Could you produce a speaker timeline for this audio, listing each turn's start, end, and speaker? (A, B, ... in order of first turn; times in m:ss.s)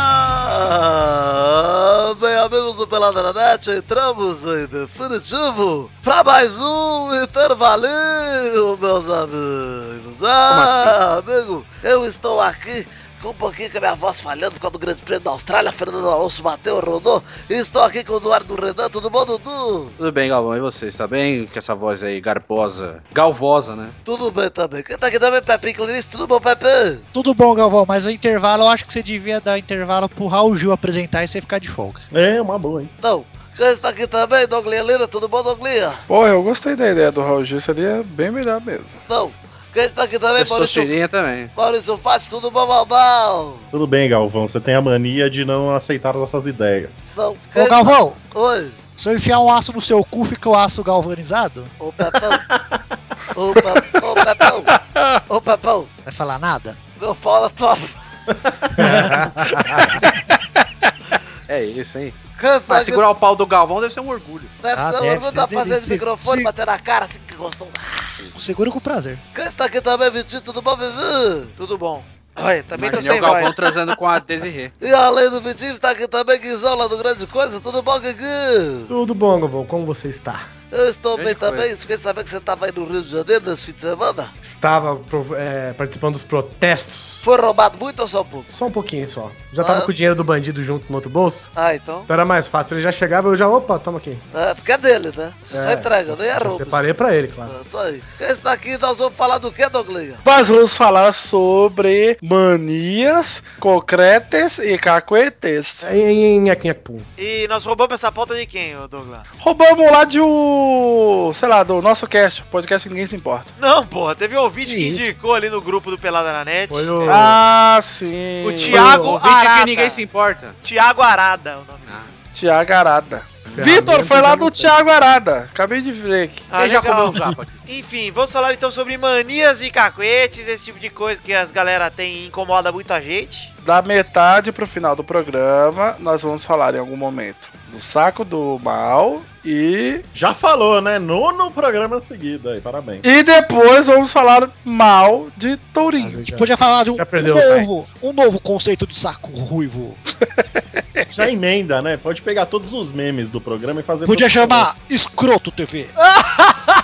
0:00.4-0:19.9 A
0:10.5-0:11.0 B
0:20.0-0:24.0 B
0:24.0-0:27.0 A
0:27.1-0:32.0 C
0:32.1-0:32.9 D
0:33.0-0:36.0 A
0:36.1-0:39.0 E
0:39.1-0:40.9 A
0:40.4-0:41.5 B
0:41.6-0:43.6 A
0:43.7-0:47.1 D
0:47.1-0:48.8 A
0:47.5-0:48.2 C
0:49.0-0:51.7 C
0:51.8-0:52.4 A
0:52.5-0:52.8 D
0:53.3-0:54.7 A
0:54.6-0:55.2 E
0:55.3-0:55.9 A
0:56.0-0:56.8 C
0:57.0-0:58.0 A
0:58.7-0:59.1 D
0:58.8-0:59.3 C
0:58.8-0:59.9 F
1:01.5-1:02.2 B
1:02.4-1:03.0 A
1:02.7-1:04.5 B
1:04.6-1:08.3 A
1:04.7-1:06.5 C
1:08.3-1:09.2 C
1:09.3-1:11.5 A
1:11.6-1:13.6 G
1:12.7-1:14.7 B
1:14.8-1:18.9 A
1:18.9-1:20.5 F
1:20.7-1:24.3 A
1:21.1-1:21.7 B
1:24.4-1:27.2 F
1:27.2-1:28.5 A
1:28.5-1:31.5 F
1:29.6-1:29.9 A
1:31.6-1:32.0 G
1:31.7-1:32.0 A
1:32.1-1:34.2 F
1:34.3-1:36.8 A
1:35.5-1:37.5 F
1:37.4-1:40.2 A
1:40.2-1:45.9 E
1:45.8-1:47.1 F
1:47.2-1:49.2 G
1:49.4-1:53.5 E
1:53.6-1:57.2 G
1:54.6-1:55.1 C
1:56.7-1:57.4 F
1:57.0-1:59.0 E
1:58.4-2:00.0 G
1:58.7-2:00.6 B
1:58.7-1:59.0 F
2:00.6-2:02.2 G
2:02.3-2:06.5 E
2:03.4-2:03.8 B
2:03.5-2:04.7 F
2:06.5-2:13.5 G
2:06.5-2:07.6 B
2:13.6-2:20.1 E
2:20.1-2:23.0 D
2:23.0-2:26.2 E
2:25.9-2:27.7 F
2:26.3-2:30.0 C
2:31.1-2:34.7 D
2:34.0-2:35.9 C
2:36.0-2:36.5 G